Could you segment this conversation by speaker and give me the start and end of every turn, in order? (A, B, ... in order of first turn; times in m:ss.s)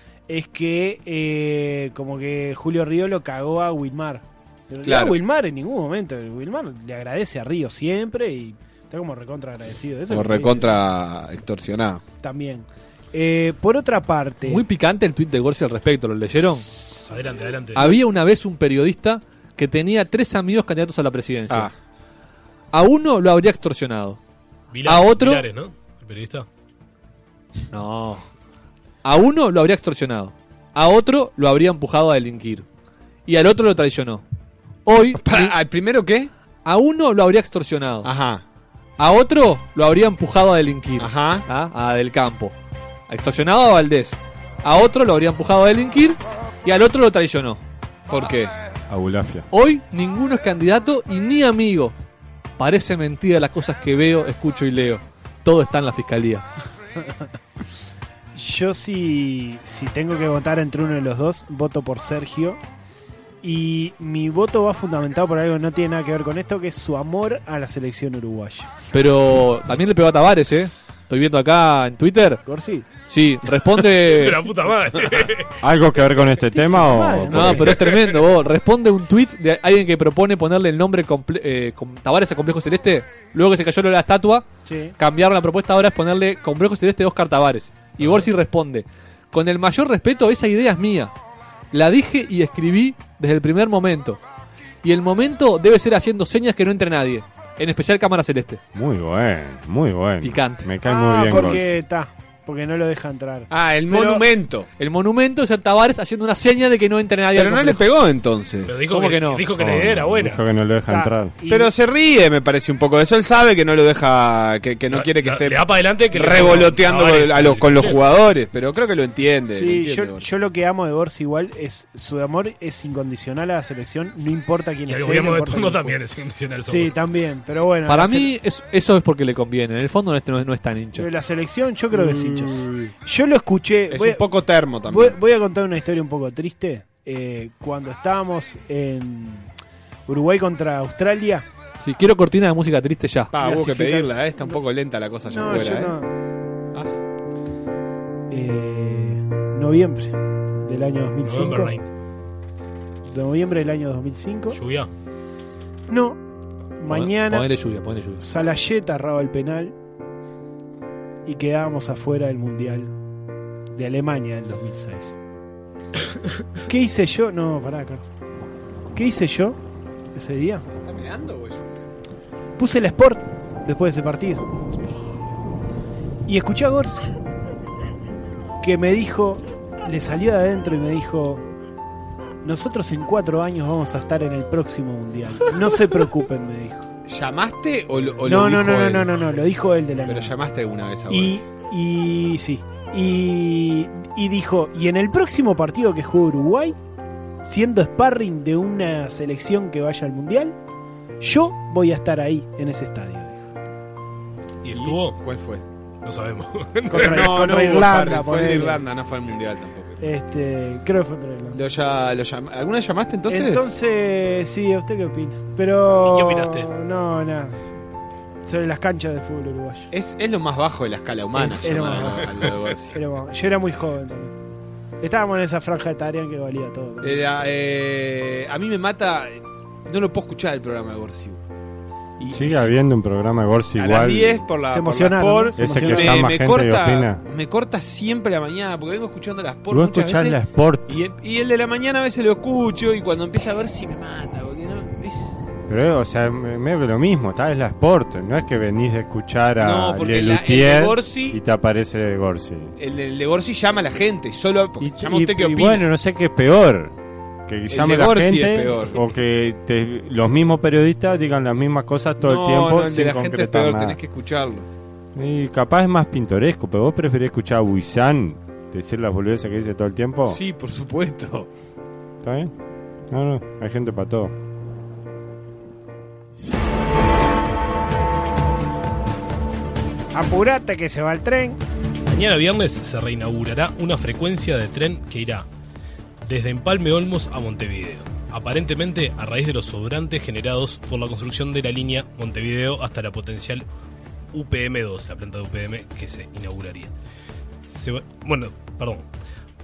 0:00.3-0:10.8 A
0:04.8-0:05.2 B
0:10.1-0:12.0 B
0:12.2-0:14.6 A
0:14.5-0:16.7 C
0:17.1-0:18.0 D
0:17.8-0:21.7 C
0:22.7-0:24.2 C
0:24.7-0:26.5 D
0:24.8-0:25.4 C
0:27.7-0:28.2 C
0:29.0-0:32.6 C
0:33.3-0:34.2 C
0:34.8-0:35.5 C
0:35.1-0:36.3 B
0:36.6-0:38.1 C
0:38.0-0:38.4 B
0:39.0-0:42.6 C
0:41.0-0:41.5 B
0:43.1-0:47.6 C
0:48.1-0:48.5 B
0:48.9-0:49.5 E
0:49.5-0:52.0 C
0:52.6-0:56.5 C
0:58.4-1:02.6 A
1:03.4-1:08.7 A
1:08.9-1:12.4 C
1:12.5-1:12.9 A
1:13.1-1:14.4 C
1:14.1-1:15.5 D
1:15.6-1:17.8 E
1:16.5-1:17.9 A
1:17.3-1:24.5 C
1:24.7-1:25.0 A
1:25.0-1:31.1 C
1:31.7-1:34.2 C
1:34.8-1:38.6 C
1:38.7-1:41.8 E
1:40.2-1:40.7 C
1:40.8-1:44.2 A
1:43.5-1:44.7 B
1:44.8-1:47.8 C
1:47.4-1:48.8 B
1:48.7-1:50.4 D
1:48.9-1:49.5 C
1:49.6-1:51.3 E
1:50.9-1:51.7 A
1:51.5-1:55.6 B
1:54.9-1:58.0 D
1:56.1-2:00.3 B
1:59.5-2:06.0 A
2:04.9-2:07.0 D
2:06.6-2:08.3 A
2:07.9-2:11.1 C
2:11.0-2:14.2 A
2:11.9-2:12.9 B
2:13.9-2:15.2 B
2:14.9-2:19.5 A
2:20.1-2:21.4 A
2:21.8-2:23.3 C
2:23.3-2:26.0 B
2:23.4-2:24.6 A
2:25.3-2:26.1 A
2:28.3-2:31.7 A
2:31.2-2:31.9 D
2:33.1-2:34.6 A
2:34.5-2:34.9 D
2:35.9-2:36.2 A
2:36.8-2:37.5 A
2:36.9-2:38.2 C
2:38.2-2:39.7 A
2:41.3-2:42.9 A
2:43.7-2:45.2 A
2:46.7-2:48.0 A
2:48.9-2:49.6 A
2:50.1-2:50.6 A
2:50.7-2:51.8 B
2:52.6-2:54.4 A
2:56.3-2:57.1 A
2:58.6-3:01.4 A
3:02.4-3:06.9 A
3:07.1-3:09.1 B
3:08.2-3:10.3 A
3:10.0-3:11.4 B
3:11.1-3:16.8 A
3:17.4-3:20.6 A
3:21.2-3:23.5 A
3:24.6-3:25.2 D
3:24.7-3:25.6 B
3:26.0-3:27.3 D
3:26.9-3:28.8 A
3:26.9-3:30.0 B
3:30.0-3:31.6 A
3:31.5-3:33.7 B
3:33.3-3:37.6 A
3:36.0-3:36.7 D
3:38.5-3:39.9 A
3:39.9-3:43.0 B
3:41.4-3:44.3 A
3:45.0-3:47.2 A
3:47.0-3:51.4 B
3:52.2-3:52.7 B
3:52.3-3:54.4 E
3:53.8-4:05.4 B
3:54.7-3:56.3 A
3:55.6-3:57.2 E
3:59.7-4:01.0 E
4:05.7-4:12.7 E
4:09.6-4:11.4 B
4:12.8-4:15.9 B
4:14.8-4:16.9 E
4:15.0-4:15.8 A
4:17.5-4:24.0 E
4:17.7-4:19.0 B
4:22.2-4:24.7 B
4:25.2-4:30.4 E
4:30.3-4:31.5 B
4:32.2-4:32.5 E
4:33.1-4:34.3 E
4:40.1-4:41.6 A
4:42.1-4:45.5 D
4:46.2-4:53.6 D
4:54.3-4:56.9 D
4:57.6-4:59.1 D